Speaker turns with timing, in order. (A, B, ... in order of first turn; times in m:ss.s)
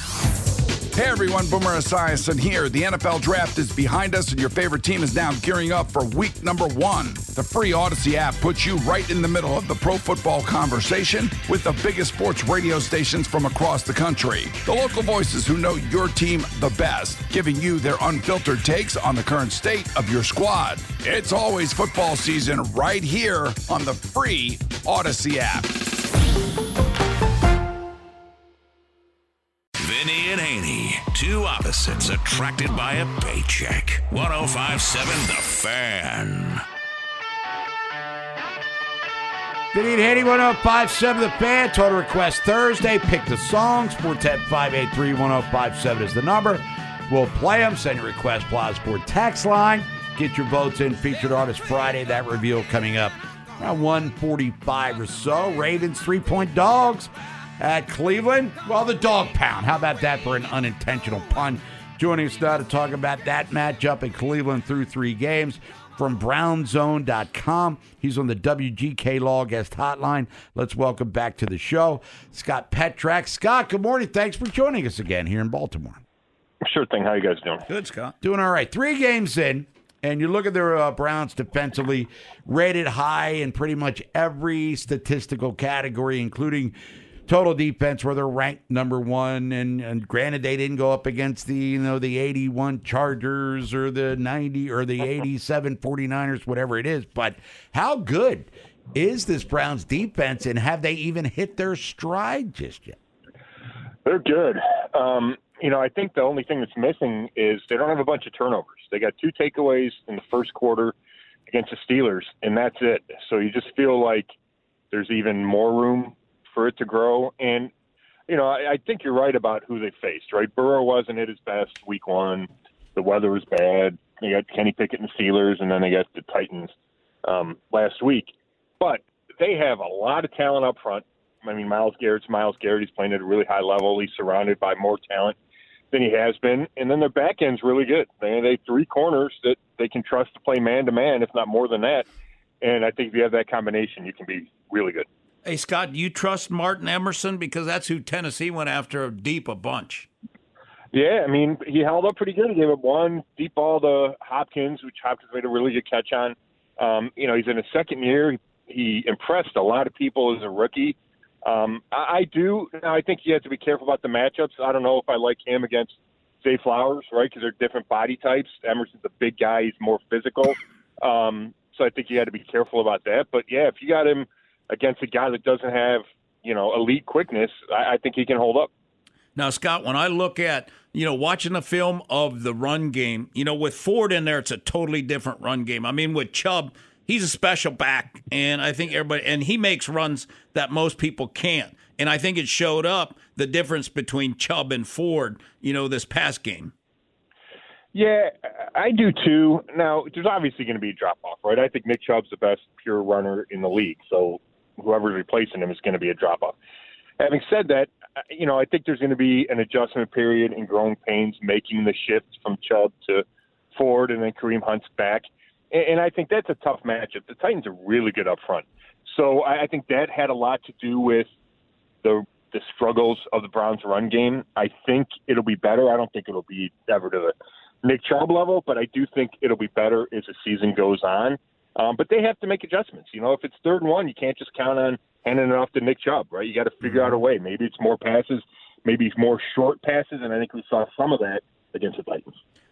0:01.0-0:25.8 A
0:29.8-0:36.6 B
0:39.7-1:16.0 C
1:16.6-1:17.6 D
1:17.7-1:18.2 E
1:18.2-1:26.8 C
1:27.3-1:43.0 C
1:44.0-1:51.0 D
1:51.5-1:54.3 D
1:54.9-1:57.7 D
1:58.3-2:06.7 D
2:07.2-2:15.4 D
2:15.9-2:22.1 D
2:22.6-2:25.1 D
2:25.4-2:30.1 E
2:30.9-2:58.7 D
2:59.4-3:16.7 E
3:17.9-3:26.6 D
3:27.2-3:41.3 D
3:42.0-4:02.3 D